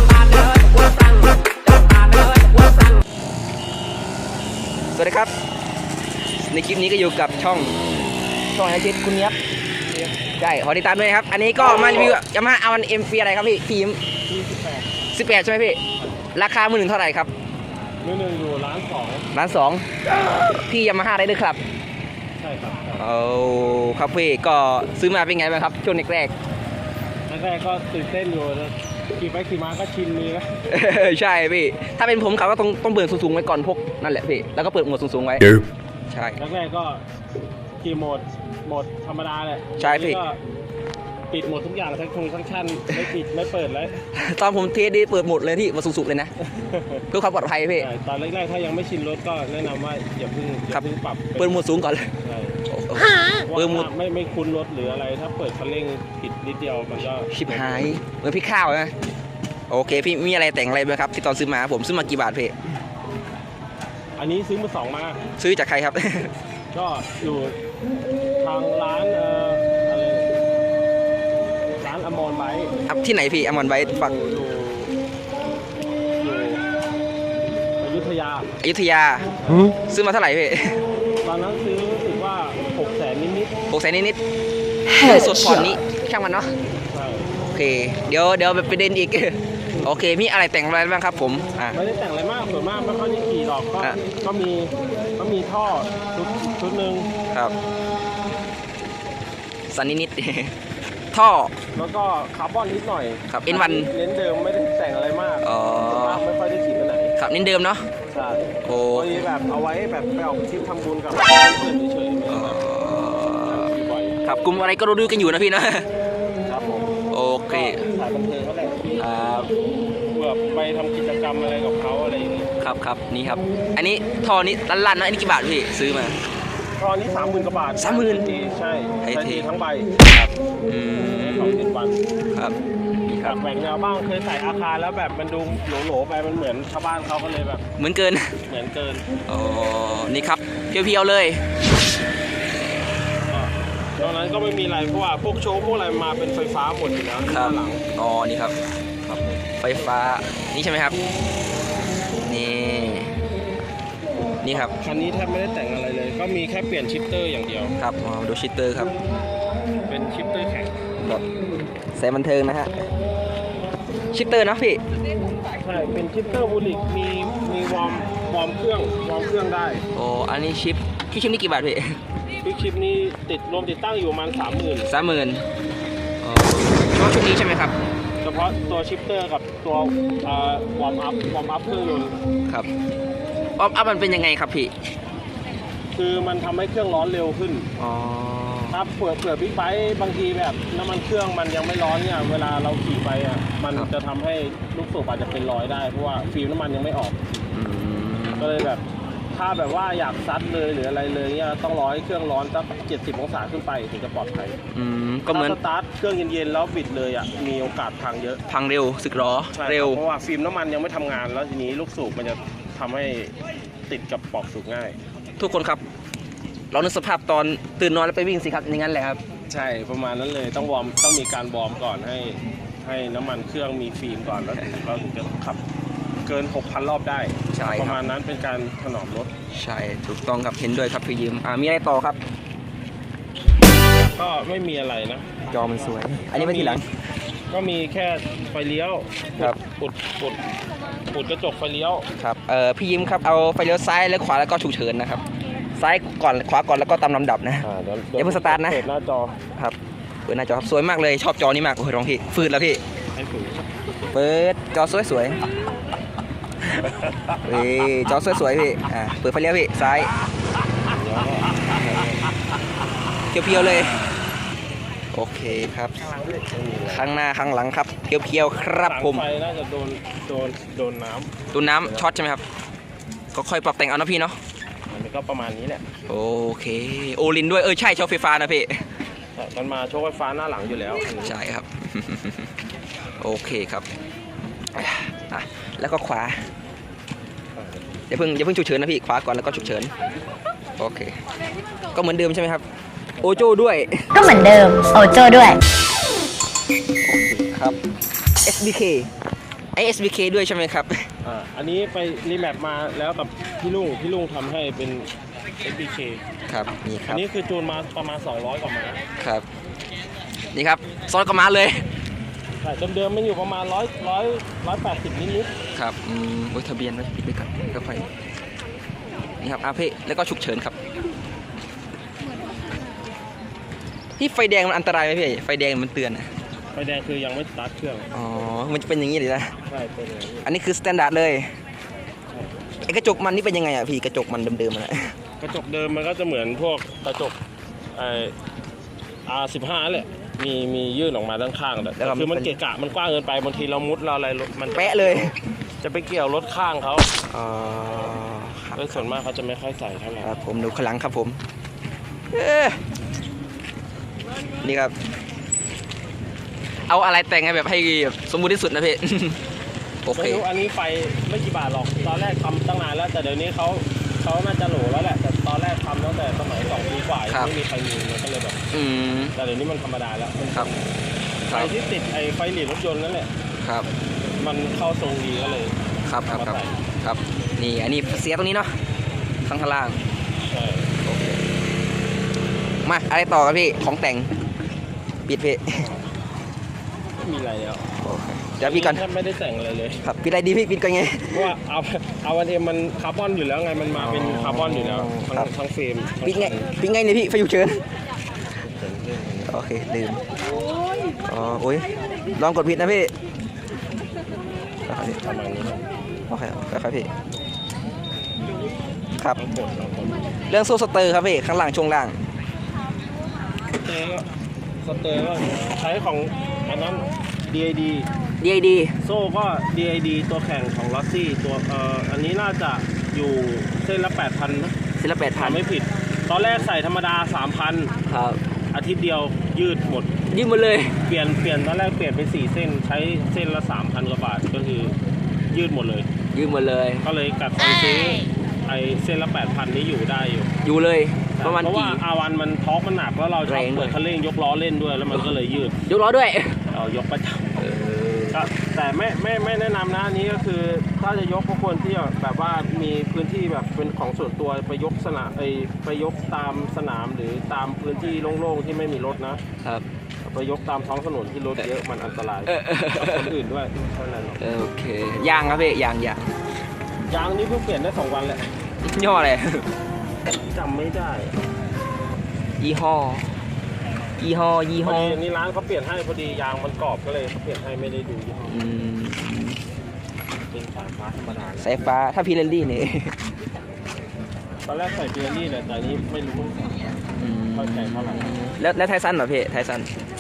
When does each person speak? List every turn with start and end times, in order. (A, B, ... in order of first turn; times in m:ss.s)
0:00.3-0:00.7 A
0:04.9-0:05.3 A
0:06.5-0:07.8 A
0:08.5-0:09.4 A
0:10.4-0:14.0 A
0:14.3-0:14.9 B
0:15.1-0:15.8 A
0:16.3-0:17.3 A
0:18.0-0:19.3 B
0:19.3-0:21.6 A
0:22.4-0:23.1 B
0:23.0-0:26.3 A
0:27.3-0:30.5 B
0:30.7-0:36.4 A
0:36.4-0:37.0 B
0:37.8-0:40.4 B
0:39.8-0:40.2 A
0:41.3-0:44.0 B
0:44.1-0:46.3 A
0:46.4-0:47.0 B
0:47.1-0:47.9 A
0:47.8-0:51.6 B
0:51.4-0:52.1 A
0:52.2-0:52.6 B
0:52.7-0:53.9 A
0:53.5-0:58.0 B
0:57.3-0:58.9 A
0:59.7-1:02.6 A
1:04.2-1:05.2 B
1:05.4-1:06.3 A
1:06.7-1:07.6 B
1:08.4-1:10.3 B
1:11.8-1:12.7 B
1:12.9-1:14.1 A
1:13.8-1:14.9 B
1:16.2-1:16.6 B
1:17.8-1:18.5 B
1:18.6-1:20.8 A
1:19.4-1:19.8 B
1:21.2-1:23.6 B
1:23.7-1:24.2 A
1:24.9-1:25.7 C
1:25.0-1:26.5 A
1:26.9-1:27.3 B
1:27.5-1:31.8 A
1:31.7-1:37.1 B
1:39.7-1:40.5 A
1:41.1-1:41.5 A
1:41.7-1:47.2 B
1:43.3-1:43.9 A
1:45.4-1:46.2 A
1:47.2-1:47.9 A
1:48.1-1:52.6 B
1:48.6-1:49.2 A
1:52.3-1:53.7 A
1:53.4-1:54.2 B
1:54.2-1:55.9 A
1:56.5-1:56.9 B
1:57.1-1:57.8 A
1:57.5-1:59.0 B
1:59.0-1:59.5 A
2:00.1-2:02.5 B
2:02.6-2:06.2 A
2:06.8-2:10.0 B
2:07.8-2:08.3 A
2:09.0-2:09.4 A
2:10.1-2:11.5 A
2:11.2-2:12.0 B
2:12.4-2:13.4 A
2:13.2-2:17.6 B
2:17.8-2:18.4 A
2:18.5-2:19.1 B
2:19.3-2:21.4 A
2:23.3-2:27.8 B
2:27.2-2:28.6 A
2:29.1-2:29.5 B
2:29.6-2:31.0 A
2:32.3-2:33.2 A
2:34.4-2:34.7 A
2:34.7-2:37.8 B
2:37.8-2:38.9 A
2:39.9-2:40.8 B
2:42.0-2:42.8 A
2:44.1-2:44.8 A
2:45.5-2:49.8 B
2:49.9-2:52.0 A
2:52.4-2:54.9 B
2:54.9-2:55.4 A
2:56.2-2:57.7 A
2:58.2-3:02.2 B
3:03.6-3:04.7 A
3:06.0-3:07.7 B
3:07.8-3:08.8 A
3:08.7-3:17.2 B
3:17.5-3:18.6 A
3:18.4-3:18.8 B
3:19.3-3:24.6 B
3:24.7-3:25.6 A
3:25.3-3:28.4 B
3:28.5-3:30.0 A
3:29.5-3:33.4 B
3:33.9-3:35.0 B
3:35.4-3:35.8 A
3:36.7-3:39.2 A
3:39.5-3:45.6 B
3:46.2-3:49.3 B
3:47.5-3:48.0 A
3:49.5-3:52.2 A
3:53.9-3:55.5 B
3:55.5-3:56.9 A
3:56.3-3:56.8 B
3:57.5-4:00.4 B
4:01.1-4:02.1 B
4:02.2-4:05.2 A
4:05.8-4:07.6 A
4:07.6-4:09.4 B
4:08.2-4:08.8 A
4:09.6-4:12.8 A
4:13.1-4:13.7 B
4:14.1-4:15.4 A
4:16.6-4:17.4 B
4:17.4-4:20.1 A
4:20.8-4:22.3 B
4:23.3-4:24.0 A
4:25.1-4:26.0 A
4:26.2-4:27.1 B
4:26.9-4:29.3 A
4:28.8-4:32.1 B
4:31.5-4:32.4 A
4:33.3-4:34.4 A
4:34.9-4:35.8 B
4:36.1-4:38.9 A
4:39.4-4:41.3 B
4:41.2-4:42.5 A
4:43.2-4:43.9 A
4:44.7-4:46.4 A
4:47.6-4:47.9 B
4:48.1-4:49.9 A
4:50.8-4:51.2 A
4:51.9-4:52.6 A
4:53.2-4:53.5 B
4:53.2-4:54.1 A
4:54.1-4:55.6 C
4:57.0-4:57.8 A
4:58.4-4:59.1 A
4:59.8-5:01.1 A
5:01.2-5:05.1 B
5:05.6-5:06.2 B
5:06.5-5:07.2 A
5:07.1-5:09.0 B
5:10.5-5:11.8 A
5:12.6-5:15.5 B
5:15.7-5:18.1 A
5:19.4-5:20.8 A
5:24.2-5:26.3 A
5:26.7-5:28.1 B
5:28.1-5:29.6 A
5:29.6-5:30.5 B
5:30.4-5:31.6 A
5:32.3-5:32.7 B
5:32.8-5:35.2 A
5:35.4-5:37.4 B
5:38.0-5:38.4 B
5:39.3-5:47.1 B
5:42.0-5:42.6 A
5:44.7-5:45.4 A
5:47.3-5:49.1 A
5:48.8-5:50.3 B
5:50.2-5:51.4 A
5:52.3-5:52.8 A
5:54.6-5:54.9 A
5:56.9-5:59.4 A
6:00.0-6:00.4 A
6:00.2-6:08.6 B
6:08.7-6:09.4 A
6:09.4-6:10.8 B
6:11.5-6:13.3 B
6:13.6-6:13.9 A
6:14.4-6:15.8 B
6:16.1-6:18.8 A
6:16.3-6:16.8 B
6:19.4-6:20.0 A
6:20.5-6:20.9 B
6:21.0-6:21.4 A
6:22.8-6:24.3 A
6:25.3-6:25.9 A
6:27.2-6:27.9 B
6:28.0-6:29.0 A
6:28.6-6:30.0 B
6:30.0-6:31.5 A
6:31.3-6:36.7 B
6:33.9-6:35.5 A
6:36.2-6:37.8 A
6:38.5-6:39.6 B
6:39.5-6:40.2 A
6:41.2-6:43.1 A
6:44.9-6:45.2 A
6:45.2-6:45.8 B
6:46.3-6:47.1 A
6:49.4-6:50.2 B
6:50.5-6:52.2 A
6:53.8-6:54.3 B
6:54.8-6:58.1 B
6:58.4-6:58.9 A
6:59.0-7:04.8 B
7:05.0-7:05.6 A
7:05.4-7:07.9 B
7:08.1-7:08.4 A
7:08.7-7:10.2 B
7:10.3-7:11.0 A
7:11.0-7:15.0 B
7:15.5-7:16.1 B
7:16.3-7:17.1 A
7:17.0-7:20.5 B
7:20.6-7:22.0 A
7:21.4-7:25.8 B
7:23.5-7:24.0 A
7:25.8-7:26.6 A
7:26.7-7:27.6 B
7:27.6-7:28.5 A
7:28.3-7:39.4 B
7:40.2-7:44.4 B
7:42.5-7:43.3 A
7:44.4-7:46.4 A
7:47.1-7:48.5 B
7:48.8-7:49.7 A
7:50.5-7:51.4 B
7:52.6-7:53.4 A
7:54.2-7:55.2 A
7:54.8-7:58.6 B
7:58.5-7:59.6 A
8:00.5-8:01.9 B
8:01.6-8:03.2 A
8:04.6-8:07.0 B
8:07.2-8:09.9 A
8:07.5-8:08.4 B